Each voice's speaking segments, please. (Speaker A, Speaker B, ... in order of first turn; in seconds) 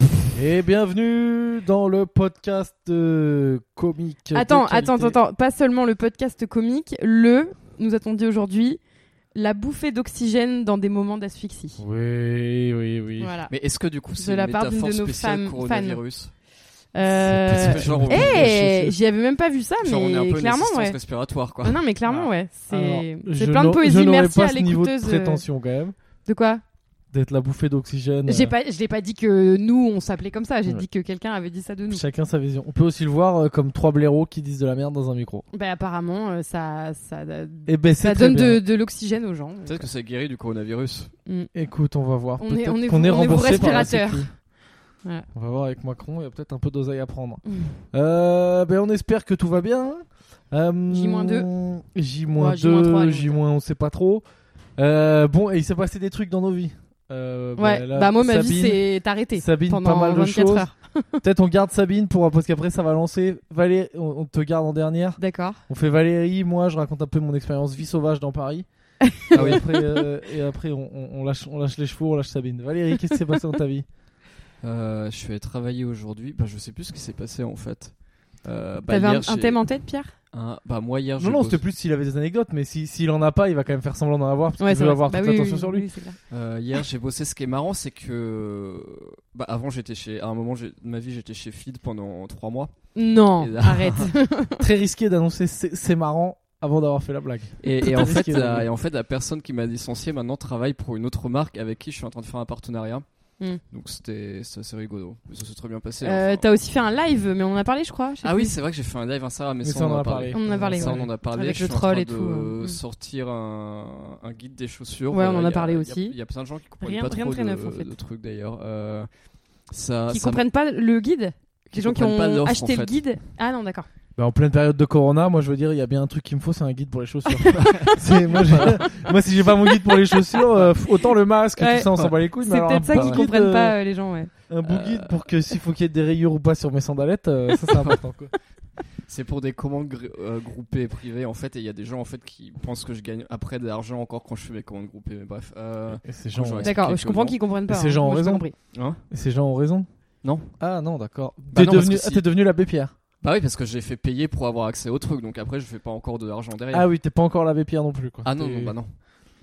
Speaker A: 0.3-5.2, 11.8-13.3, 17.1-18.9, 22.1-25.9, 27.1-28.5, 31.9-35.5, 37.6-38.6, 41.5-44.3, 45.3-54.2, 54.8-58.8, 59.4-60.7, 61.2-68.7, 69.2-73.8, 81.2-85.9, 94.6-98.7, 109.6-111.1, 124.2-133.8, 134.5-138.3, 146.0-146.8, 147.7-148.4, 149.1-149.9, 150.6-152.9, 156.7-158.7
Speaker B: 4.3-8.8, 9.3-11.8, 13.2-13.5, 14.2-16.0, 16.9-21.0, 21.6-25.4, 26.2-26.6, 28.3-32.0, 35.5-39.8, 42.4-44.3, 47.5-47.8, 50.9-51.5, 52.4-53.4, 57.6-61.2, 65.2-65.6, 69.0-70.0, 78.9-80.1, 84.6-86.2, 92.9-94.6, 106.0-108.5, 110.3-112.8, 115.1-116.2, 116.8-117.9, 120.1-123.9, 127.4-127.9, 131.6-134.3, 146.6-148.5
Speaker C: 13.5-16.3, 17.5-18.5, 19.8-21.8, 39.6-41.1, 69.3-69.6, 74.6-79.6, 80.3-81.6, 86.3-94.1, 97.6-106.5, 108.2-119.1, 119.7-120.4, 121.7-123.0, 127.5-127.9, 132.9-133.3, 134.6-135.2, 139.1-147.4, 148.7-149.0, 150.2-150.5, 151.5-152.2, 153.2-156.8, 158.2-158.9